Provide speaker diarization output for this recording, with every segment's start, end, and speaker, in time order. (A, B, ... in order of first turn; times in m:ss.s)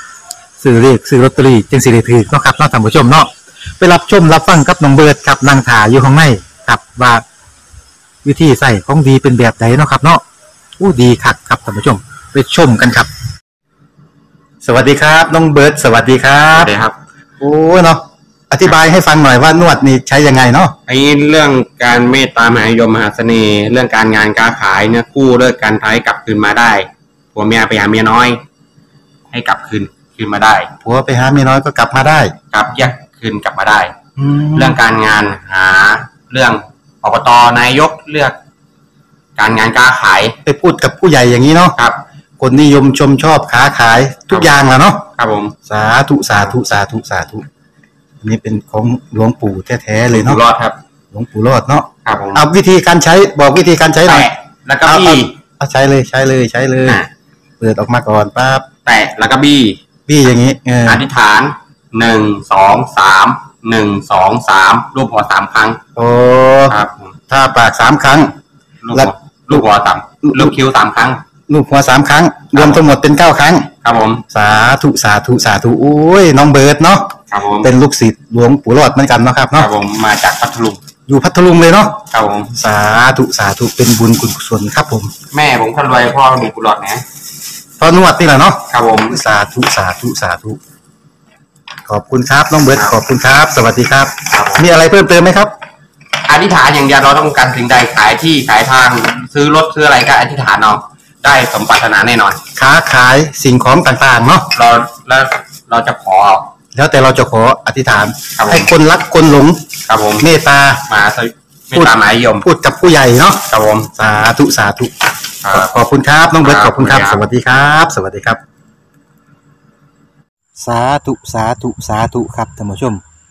0:00.6-0:07.2 A
0:08.2-0:10.2 A
0:10.8-0:13.1 A
0:14.6-0:16.7 A
0:16.5-0:17.0 B
0:17.4-0:20.8 A
0:20.9-0:28.4 B
0:29.3-0:30.7 B
0:30.8-0:32.3 A
0:32.5-0:34.0 B
0:34.2-0:34.8 A
0:34.5-0:38.4 B
0:39.4-0:40.4 B
0:40.5-0:41.8 A
0:42.4-0:45.1 A
0:45.2-0:45.6 B
0:45.7-0:47.4 A
0:48.2-0:50.4 A
0:50.1-0:50.8 B
0:51.1-0:57.0 A
0:52.0-0:52.5 B
0:54.0-0:55.4 B
0:56.8-0:57.1 B
0:57.6-0:58.7 A
0:58.8-0:59.8 B
1:00.1-1:01.1 A
1:00.8-1:05.8 B
1:06.0-1:06.8 A
1:06.7-1:07.2 B
1:07.3-1:08.4 A
1:08.8-1:11.2 B
1:08.9-1:09.7 A
1:10.2-1:10.6 A
1:11.5-1:13.7 A
1:12.5-1:12.9 B
1:13.8-1:14.2 B
1:14.3-1:19.7 A
1:17.3-1:17.7 B
1:19.5-1:20.8 B
1:21.1-1:25.1 A
1:22.1-1:22.5 B
1:25.3-1:27.0 B
1:27.8-1:30.6 A
1:28.7-1:29.2 B
1:31.9-1:35.5 A
1:34.3-1:34.7 B
1:36.3-1:42.4 B
1:42.6-1:44.5 A
1:44.5-1:46.5 B
1:46.7-1:49.7 A
1:48.4-1:48.7 B
1:49.9-1:50.3 B
1:50.2-1:50.9 A
1:50.9-1:52.5 B
1:51.7-1:58.4 A
1:53.5-1:53.9 B
1:55.4-1:55.7 B
1:56.3-1:57.2 B
2:00.6-2:03.0 A